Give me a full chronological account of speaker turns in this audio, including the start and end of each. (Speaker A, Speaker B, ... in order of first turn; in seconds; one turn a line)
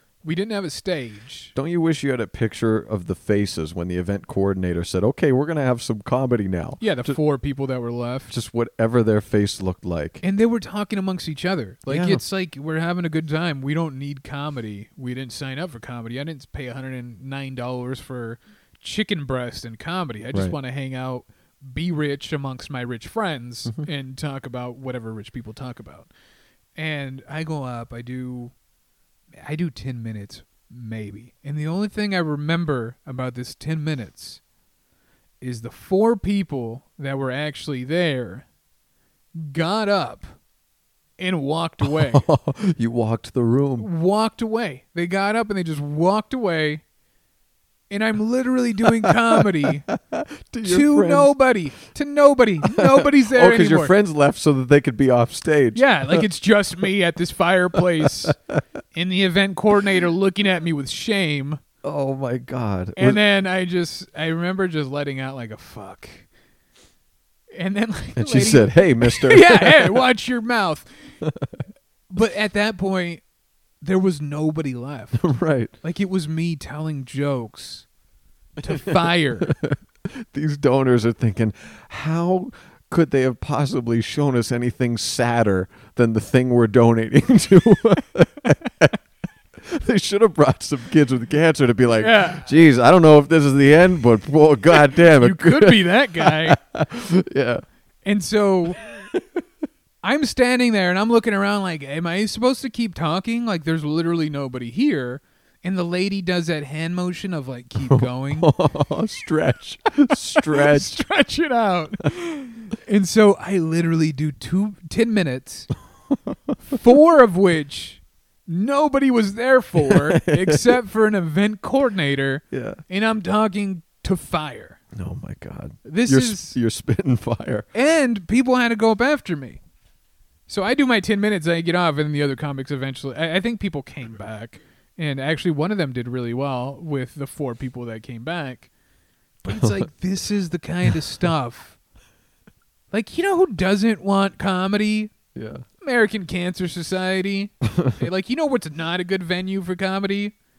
Speaker A: 0.2-1.5
Speaker B: 1.6-7.2
Speaker A: 6.8-8.3
Speaker B: 8.3-10.2
Speaker A: 10.2-26.1
Speaker B: 11.9-12.2
Speaker A: 26.8-28.6
Speaker A: 29.4-34.4
Speaker A: 35.4-38.5
Speaker A: 39.4-40.4
Speaker A: 41.2-42.3
Speaker B: 41.9-43.9
Speaker A: 43.8-46.8
Speaker A: 47.9-49.9
Speaker B: 49.9-51.3
Speaker A: 50.6-53.9
Speaker B: 52.8-56.2
Speaker A: 55.7-58.4
Speaker A: 58.9-61.6
Speaker B: 61.8-63.2
Speaker A: 63.0-66.3
Speaker A: 67.5-71.2
Speaker B: 68.2-70.0
Speaker B: 71.2-71.5
Speaker A: 72.1-73.2
Speaker A: 73.8-75.3
Speaker B: 75.2-75.7
Speaker A: 75.8-77.9
Speaker A: 78.6-79.5
Speaker B: 78.7-88.9
Speaker B: 89.6-97.6
Speaker A: 92.0-92.5
Speaker A: 94.9-96.6
Speaker A: 98.0-98.9
Speaker B: 99.0-99.4
Speaker A: 100.0-108.5
Speaker B: 107.8-111.0
Speaker A: 110.4-115.7
Speaker B: 116.1-116.5
Speaker A: 116.7-124.8
Speaker B: 119.8-120.7
Speaker B: 122.5-122.8
Speaker B: 124.9-127.7
Speaker A: 125.8-126.6
Speaker A: 127.7-129.6
Speaker A: 130.5-138.7
Speaker A: 139.4-141.8
Speaker B: 139.5-139.8
Speaker A: 142.9-145.2
Speaker B: 145.3-145.6
Speaker A: 145.8-150.3